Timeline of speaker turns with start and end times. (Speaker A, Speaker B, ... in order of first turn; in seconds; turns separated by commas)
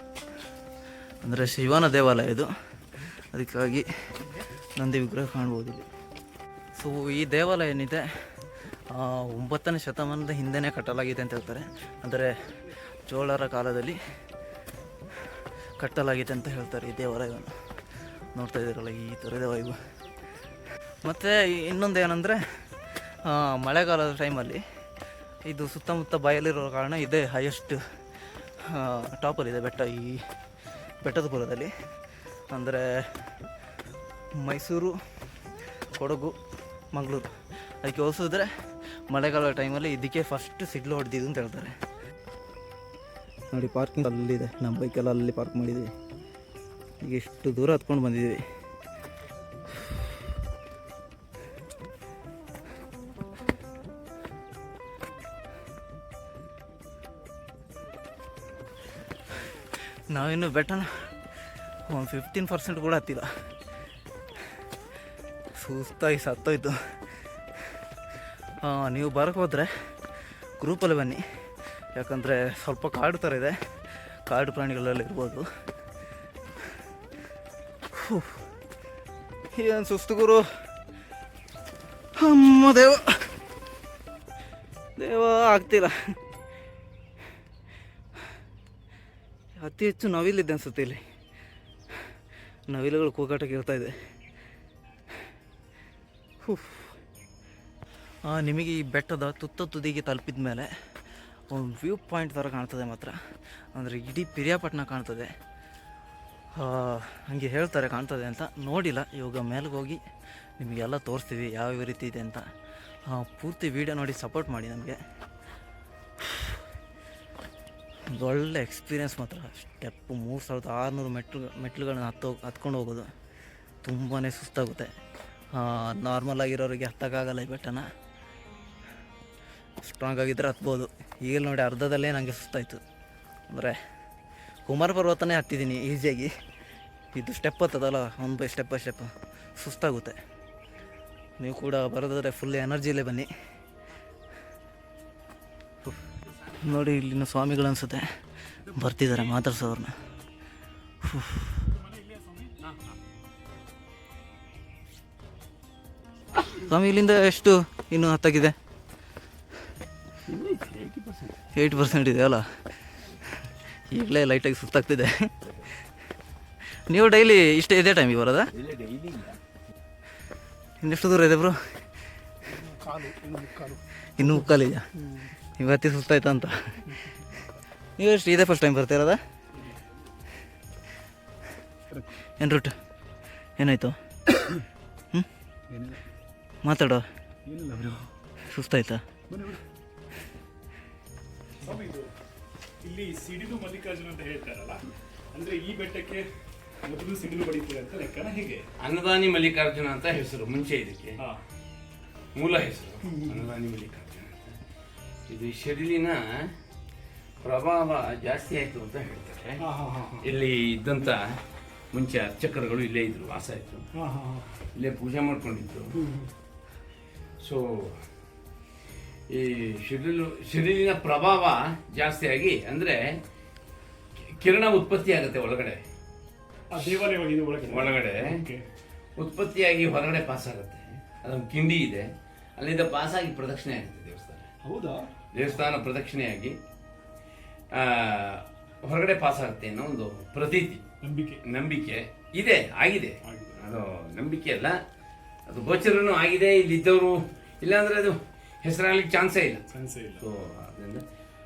Speaker A: 1.2-3.9, Speaker A: 4.8-5.9, Speaker A: 6.8-8.1, Speaker A: 8.9-12.6, Speaker A: 13.1-14.0, Speaker A: 15.8-17.6, Speaker A: 18.3-19.8, Speaker A: 21.0-24.6, Speaker A: 25.5-27.8, Speaker A: 28.6-30.3, Speaker A: 31.0-31.7, Speaker A: 32.5-33.3, Speaker A: 34.4-35.0, Speaker A: 35.9-36.4, Speaker A: 36.9-38.5, Speaker A: 39.1-41.8, Speaker A: 43.5-45.9, Speaker A: 47.0-48.4, Speaker A: 60.1-61.2, Speaker A: 61.9-63.3, Speaker A: 65.6-67.0, Speaker A: 68.6-69.7, Speaker A: 70.6-71.2, Speaker A: 72.0-75.5, Speaker A: 77.9-78.4, Speaker A: 79.5-80.5, Speaker A: 82.2-83.3, Speaker A: 85.0-86.2, Speaker A: 89.6-91.0, Speaker A: 92.7-94.0, Speaker A: 96.4-97.0, Speaker A: 98.3-100.7, Speaker A: 101.5-103.2, Speaker A: 103.7-105.3, Speaker A: 106.6-110.0, Speaker A: 110.6-112.5, Speaker A: 113.1-115.0, Speaker A: 116.2-116.6, Speaker A: 118.1-123.1, Speaker A: 123.8-124.9, Speaker A: 125.5-127.9, Speaker A: 129.8-132.8, Speaker A: 133.5-133.8, Speaker A: 134.7-136.3, Speaker A: 137.2-140.2, Speaker A: 141.4-143.3, Speaker A: 146.6-148.1, Speaker B: 148.7-149.1, Speaker A: 148.7-149.9, Speaker A: 151.0-151.7, Speaker B: 151.7-152.6, Speaker A: 156.5-158.6, Speaker C: 160.3-161.4, Speaker A: 161.6-162.5, Speaker A: 163.4-165.3, Speaker A: 166.9-168.5, Speaker C: 168.5-169.4, Speaker A: 170.8-171.6, Speaker B: 172.6-173.8, Speaker A: 174.2-174.9, Speaker A: 175.6-177.1, Speaker A: 178.0-179.2, Speaker B: 179.6-179.8, Speaker A: 182.4-182.8, Speaker A: 183.6-184.0, Speaker B: 185.7-186.1, Speaker A: 186.6-187.1, Speaker B: 187.5-188.1, Speaker A: 188.4-189.0, Speaker B: 189.3-189.6, Speaker B: 191.6-192.1, Speaker B: 192.8-196.3, Speaker B: 196.8-198.7, Speaker C: 198.8-201.2, Speaker C: 202.3-204.6, Speaker B: 203.1-203.4, Speaker C: 205.3-206.6, Speaker C: 207.4-209.6, Speaker B: 209.6-210.3, Speaker C: 210.2-211.4, Speaker C: 211.9-213.9, Speaker B: 214.0-214.6, Speaker C: 214.8-216.0, Speaker B: 215.9-216.3, Speaker C: 217.4-218.1, Speaker C: 219.3-223.2, Speaker C: 224.2-225.8, Speaker B: 226.7-228.7, Speaker C: 227.7-228.4, Speaker C: 229.2-234.5, Speaker B: 234.6-235.1, Speaker C: 235.3-236.6, Speaker C: 237.7-240.8, Speaker B: 241.0-241.4, Speaker C: 241.4-244.8, Speaker B: 243.3-243.6, Speaker C: 245.5-249.7, Speaker B: 249.7-250.2, Speaker C: 250.2-251.0